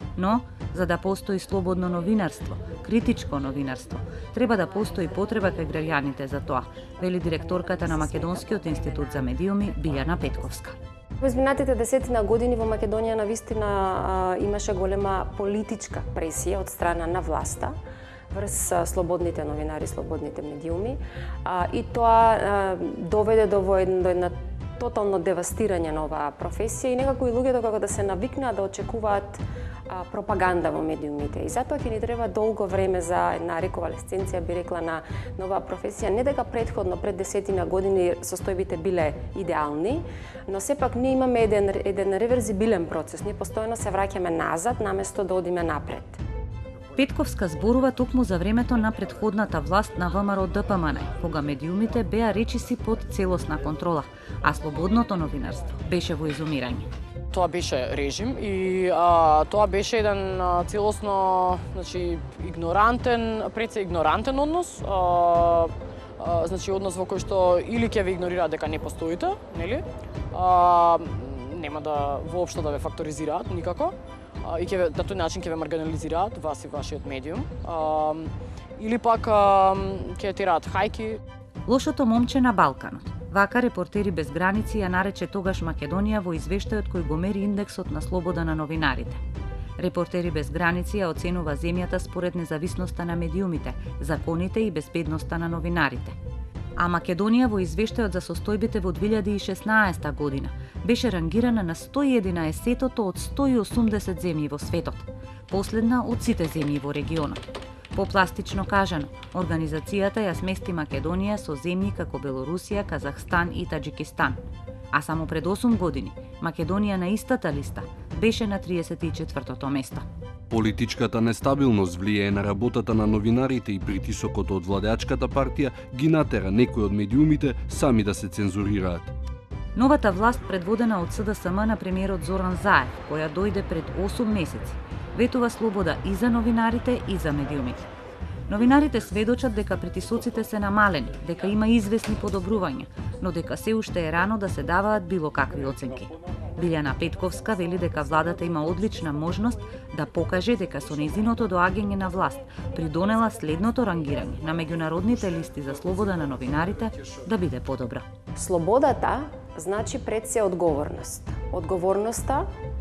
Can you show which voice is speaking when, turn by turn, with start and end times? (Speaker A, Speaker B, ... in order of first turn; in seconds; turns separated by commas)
Speaker A: 0.2-10.8, Speaker B: 7.0-9.2, Speaker B: 11.2-17.7, Speaker B: 18.3-46.2, Speaker A: 47.0-56.9, Speaker C: 57.3-81.2, Speaker A: 81.7-89.2, Speaker A: 89.8-96.2, Speaker A: 96.8-107.4, Speaker A: 107.9-114.4, Speaker A: 114.9-120.0, Speaker D: 120.5-129.1, Speaker A: 129.7-137.8, Speaker A: 138.5-158.1, Speaker B: 158.3-162.4